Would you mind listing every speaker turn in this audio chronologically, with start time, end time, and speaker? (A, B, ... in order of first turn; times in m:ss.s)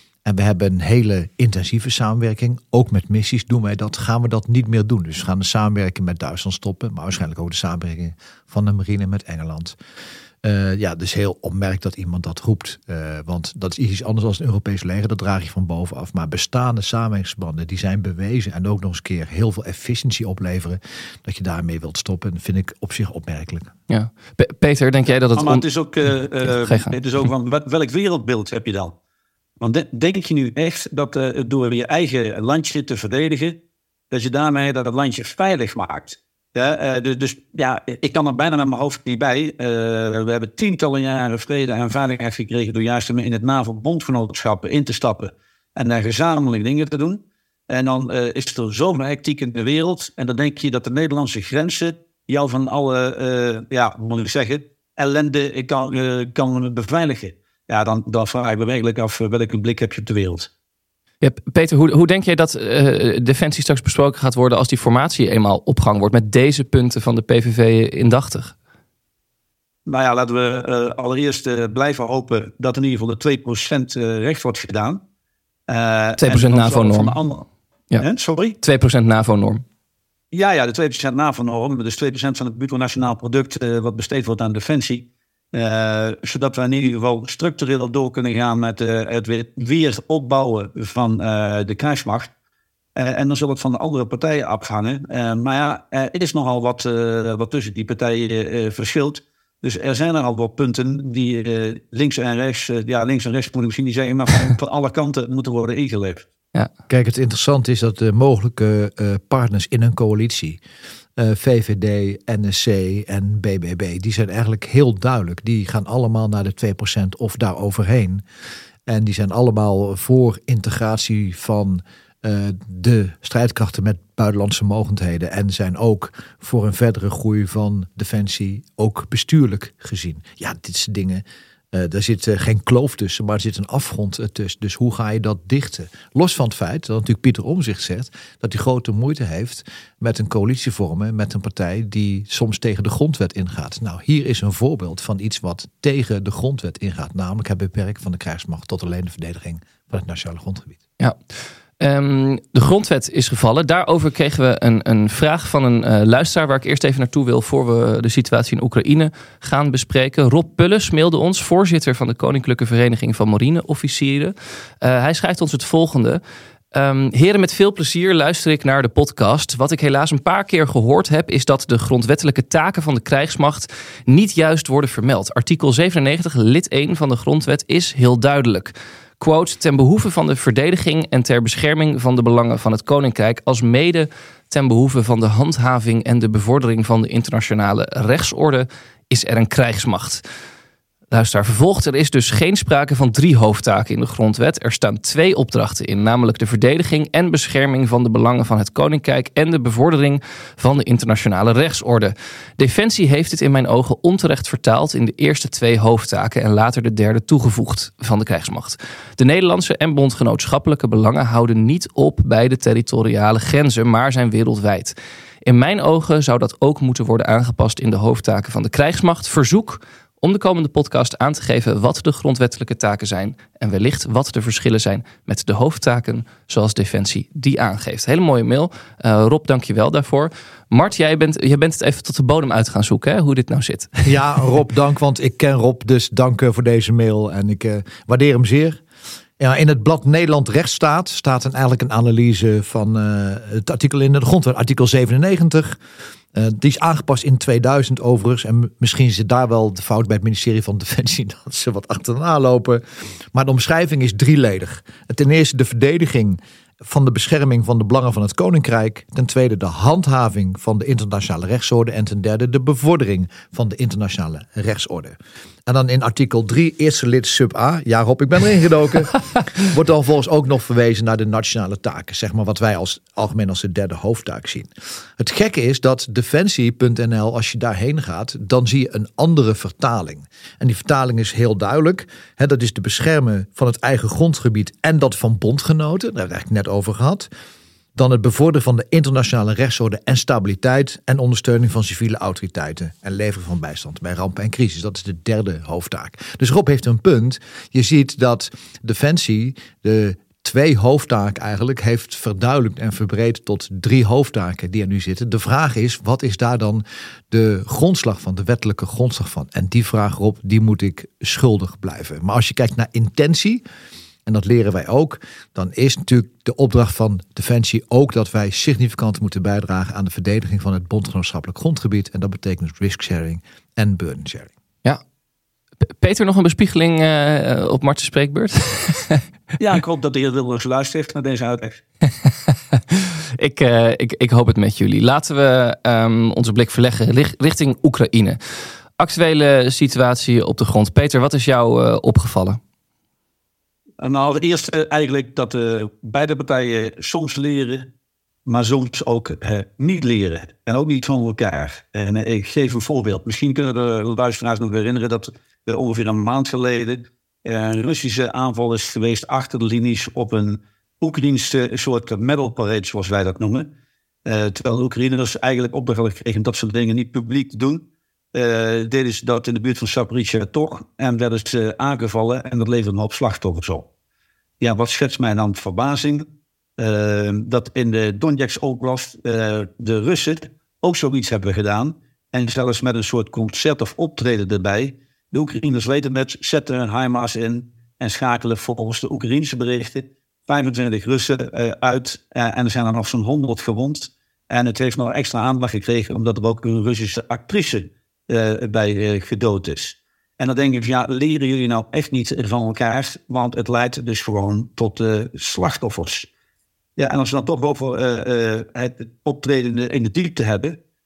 0:00.2-0:09.8 A
0:10.4-0:23.7 A
0:23.9-0:25.7 B
0:25.4-0:28.9 C
0:26.4-0:27.0 B
0:29.6-0:33.6 C
0:34.1-1:00.5 C
1:01.2-1:08.5 B
1:09.9-1:15.0 C
1:15.7-1:17.4 C
1:16.2-1:17.2 B
1:18.0-1:18.6 C
1:18.6-1:19.6 B
1:20.3-1:32.3 C
1:33.0-1:46.2 C
1:46.9-1:50.6 A
1:51.2-1:58.2 A
1:58.9-2:30.8 A
2:31.8-2:46.2 B
2:46.7-3:10.2 B
3:11.1-3:34.9 B
3:35.4-3:54.1 B
3:54.0-3:58.8 A
3:59.4-4:05.8 A
4:06.3-4:47.3 A
4:48.0-5:13.6 A
5:14.2-5:24.5 A
5:25.8-5:29.2 B
5:29.6-5:31.8 C
5:32.9-5:38.4 B
5:39.0-5:42.6 B
5:44.0-5:47.9 C
5:48.4-6:03.7 C
6:04.2-6:13.9 C
6:14.6-6:16.2 C
6:16.8-6:46.3 C
6:47.0-6:50.8 C